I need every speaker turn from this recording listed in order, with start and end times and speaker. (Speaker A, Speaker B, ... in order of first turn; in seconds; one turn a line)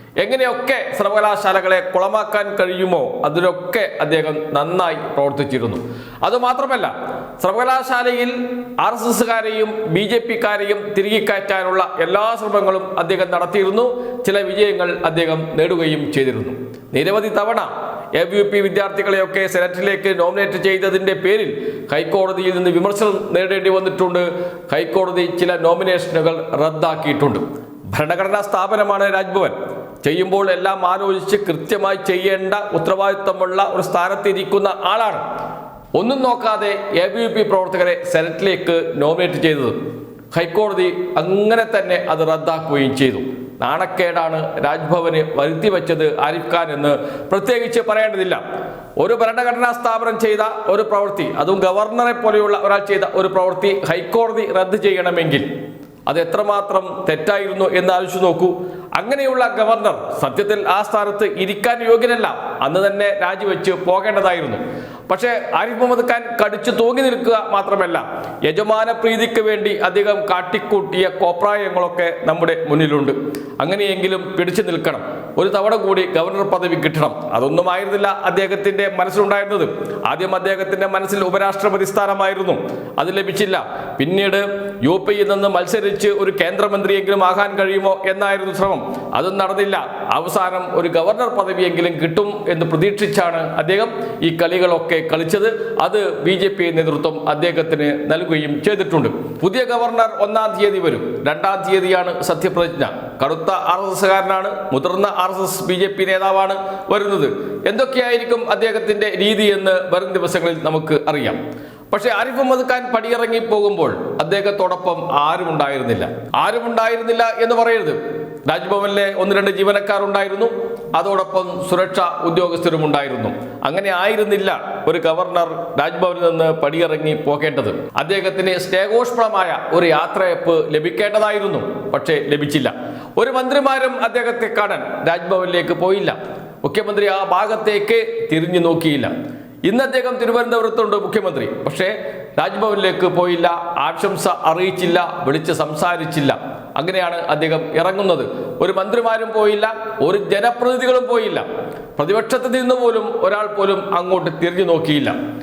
Speaker A: 0.2-35.2
Speaker A: 36.0-39.7
Speaker A: 40.3-48.4
Speaker A: 49.0-55.5
Speaker A: 56.1-111.4
Speaker A: 111.9-139.1
Speaker A: 139.6-151.4
Speaker A: 152.0-155.2